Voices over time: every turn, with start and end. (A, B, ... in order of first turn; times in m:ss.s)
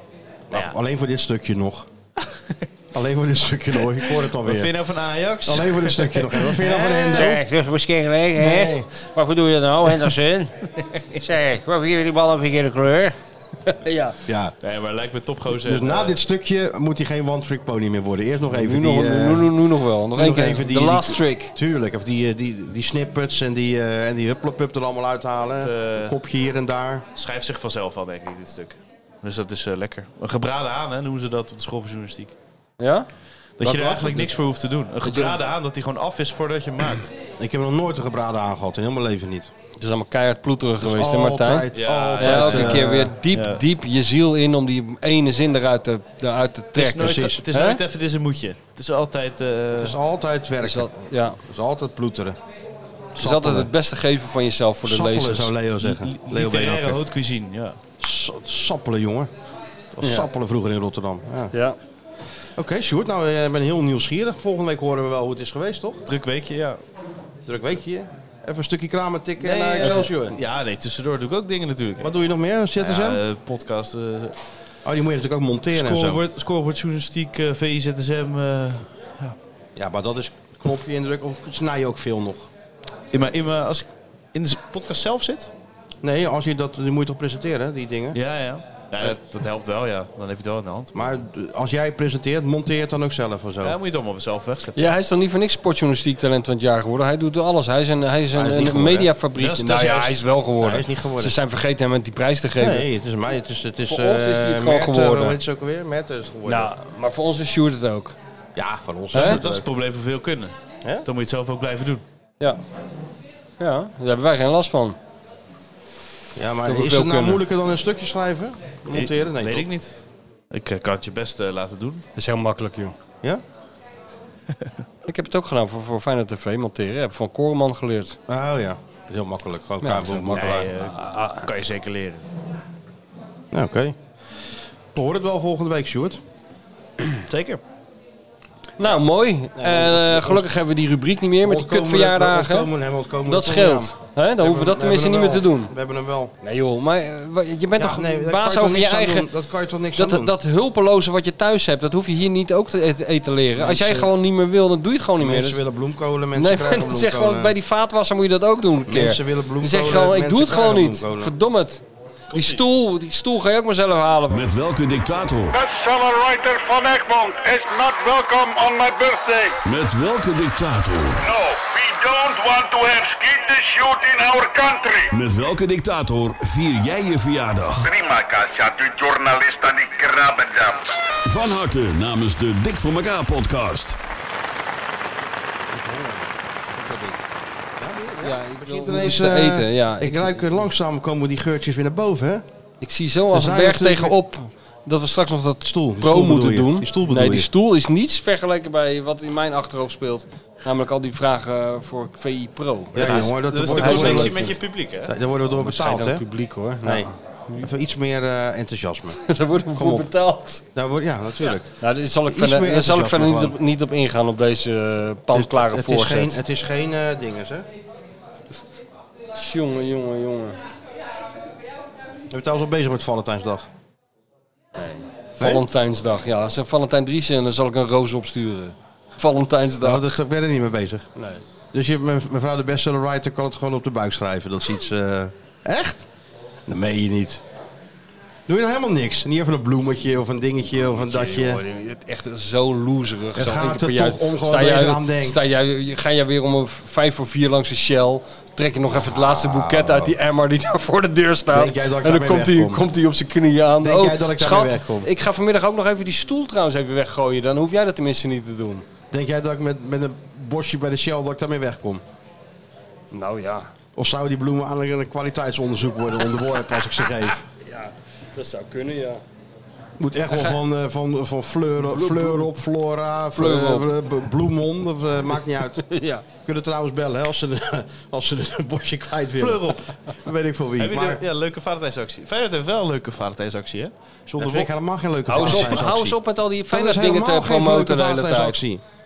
0:00.5-0:01.9 A
0:02.3-0:02.6 B
0:02.9-0:04.7 A
0:03.9-0:07.4 B
0:05.4-0:07.4 A
0:07.1-0:10.5 C
0:08.4-0:08.9 A
0:10.8-0:11.2 B
0:11.2-0:13.1 C
0:13.7-0:14.1 D
0:14.2-0:14.5 A
0:14.6-0:16.2 B
0:15.5-0:19.5 A
0:18.5-0:21.5 D
0:20.1-0:27.0 A
0:25.6-0:26.2 B
0:27.1-0:32.3 B
0:32.8-0:33.1 D
0:33.6-0:37.1 B
0:33.6-0:34.3 D
0:35.0-0:35.4 D
0:37.4-0:39.5 A
0:39.8-0:47.8 D
0:40.8-0:43.1 A
0:41.7-0:43.6 B
0:46.7-0:50.0 B
0:46.9-0:47.4 A
0:49.7-0:52.4 A
0:50.6-0:51.4 D
0:53.2-0:53.7 A
0:53.2-0:55.5 D
0:54.8-0:57.0 A
0:55.8-0:57.8 B
0:58.0-0:59.3 A
0:59.9-1:01.5 A
1:00.0-1:00.3 D
1:01.5-1:01.8 D
1:02.6-1:06.0 A
1:06.1-1:06.8 B
1:07.4-1:10.4 A
1:09.4-1:12.1 B
1:12.0-1:13.2 A
1:12.8-1:14.4 B
1:14.8-1:16.2 A
1:15.7-1:19.4 B
1:19.8-1:22.5 A
1:23.1-1:25.5 B
1:26.0-1:28.2 A
1:28.1-1:31.1 B
1:30.9-1:33.8 A
1:33.6-1:34.9 B
1:34.8-1:42.9 D
1:38.3-1:39.1 A
1:39.3-1:40.3 B
1:40.6-1:41.4 A
1:42.6-1:46.7 A
1:43.9-1:45.4 D
1:46.4-1:48.2 D
1:48.5-1:49.7 A
1:49.1-1:49.4 D
1:49.1-1:50.5 B
1:51.0-1:52.0 B
1:53.6-1:55.0 D
1:56.4-1:59.7 A
1:56.6-1:57.4 D
1:58.9-1:59.9 B
2:00.5-2:02.0 B
2:02.2-2:02.9 D
2:05.1-2:08.2 D
2:08.3-2:10.7 A
2:09.8-2:11.5 D
2:10.3-2:12.2 B
2:13.5-2:14.0 A
2:14.9-2:16.2 A
2:17.3-2:17.6 B
2:18.8-2:22.7 D
2:19.6-2:20.5 A
2:21.4-2:26.3 A
2:23.3-2:25.7 D
2:26.4-2:29.3 D
2:27.8-2:30.3 A
2:29.9-2:35.6 D
2:33.6-2:34.1 A
2:35.2-2:37.5 A
2:36.4-2:44.5 D
2:38.9-2:41.3 A
2:42.3-2:42.6 B
2:44.3-2:45.6 E
2:45.5-2:49.6 F
2:49.6-2:51.2 E
2:51.2-2:55.1 F
2:55.1-2:57.9 E
2:57.8-3:00.9 F
3:01.2-3:04.0 E
3:05.7-3:06.2 A
3:06.7-3:07.2 D
3:07.8-3:12.4 A
3:08.2-3:10.6 D
3:12.8-3:24.4 D
3:13.3-3:14.2 A
3:15.6-3:17.5 A
3:22.9-3:26.2 A
3:23.0-3:25.1 B
3:25.5-3:27.7 D
3:26.8-3:29.2 A
3:29.2-3:30.6 D
3:29.7-3:30.1 A
3:30.7-3:31.7 A
3:31.8-3:36.4 D
3:32.2-3:33.6 A
3:35.3-3:37.6 A
3:39.3-3:40.6 D
3:42.3-3:43.6 A
3:44.8-3:50.1 D
3:45.4-3:45.6 A
3:49.8-3:51.1 A
3:51.2-3:51.4 D
3:51.7-3:56.1 A
3:56.7-3:57.4 A
3:58.5-4:01.6 A
4:00.7-4:18.8 D
4:03.3-4:05.5 A
4:08.9-4:10.2 A
4:11.5-4:12.9 A
4:13.8-4:15.1 A
4:19.1-4:22.0 A
4:23.1-4:23.7 D
4:24.0-4:27.4 A
4:27.6-4:29.2 D
4:30.0-4:35.9 A
4:31.8-4:32.5 D
4:33.3-4:33.9 D
4:35.8-4:36.2 D
4:36.4-4:41.2 A
4:39.4-4:40.0 B
4:40.8-4:44.7 B
4:44.4-4:48.8 A
4:45.3-4:48.6 D
4:45.4-4:45.8 B